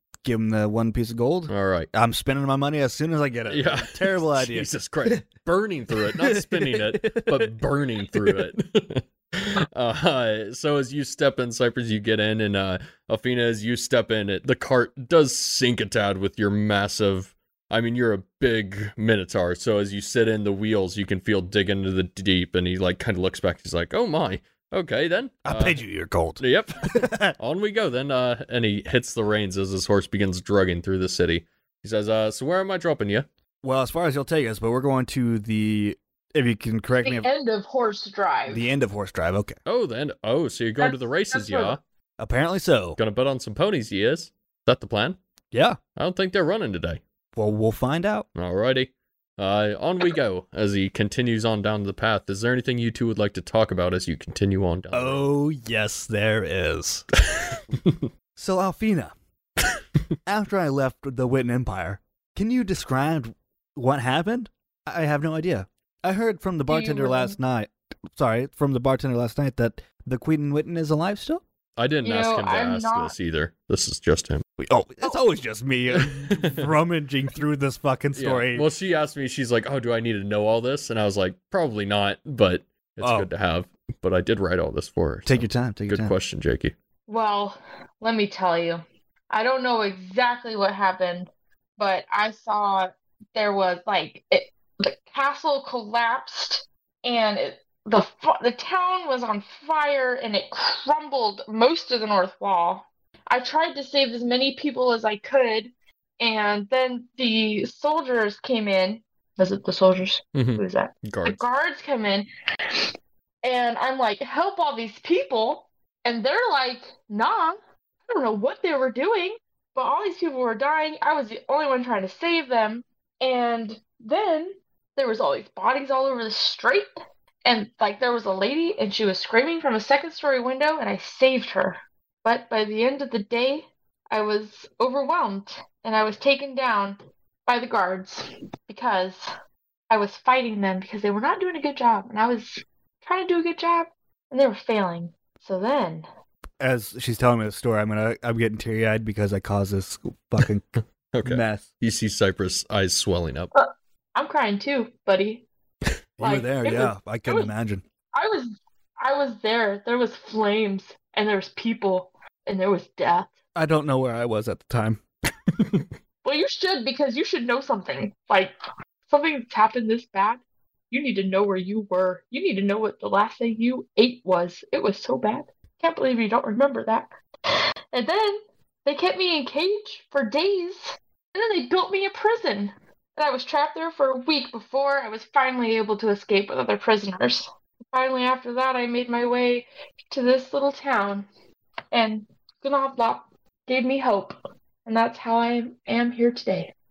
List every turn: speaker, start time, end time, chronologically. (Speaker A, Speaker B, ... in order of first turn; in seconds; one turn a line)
Speaker A: 0.2-5.2
Speaker B: 1.5-1.9
Speaker B: 3.5-25.8
Speaker A: 6.0-7.5
Speaker A: 25.4-27.3
Speaker B: 26.4-33.3
Speaker A: 33.6-37.3
Speaker C: 37.0-38.7
Speaker A: 38.5-39.6
Speaker B: 39.6-41.8
Speaker C: 40.8-41.8
Speaker A: 42.2-43.0
Speaker B: 43.0-45.2
Speaker A: 45.5-45.8
Speaker B: 46.0-47.0
Speaker A: 47.4-48.3
Speaker B: 48.3-55.3
Speaker A: 54.9-57.0
Speaker B: 57.2-58.1
Speaker A: 58.4-59.1
Speaker A: 60.2-71.4
Speaker C: 66.7-67.3
Speaker B: 71.8-74.4
Speaker C: 72.0-73.1
Speaker A: 74.6-78.7
Speaker B: 75.9-76.7
Speaker B: 78.1-86.7
Speaker A: 83.0-83.3
Speaker A: 85.2-86.1
Speaker C: 87.1-112.8
Speaker B: 110.3-111.4
Speaker C: 113.4-126.9
Speaker C: 127.4-139.3
Speaker C: 139.9-146.1
Speaker A: 146.6-150.7
Speaker B: 151.1-153.5
Speaker A: 151.2-151.7
Speaker C: 153.5-155.4
Speaker A: 156.2-157.8
Speaker C: 156.2-157.5
Speaker C: 158.1-163.3
Speaker A: 163.5-165.0
Speaker B: 165.5-165.9
Speaker C: 166.2-168.5
Speaker C: 169.1-191.3
Speaker C: 191.9-196.7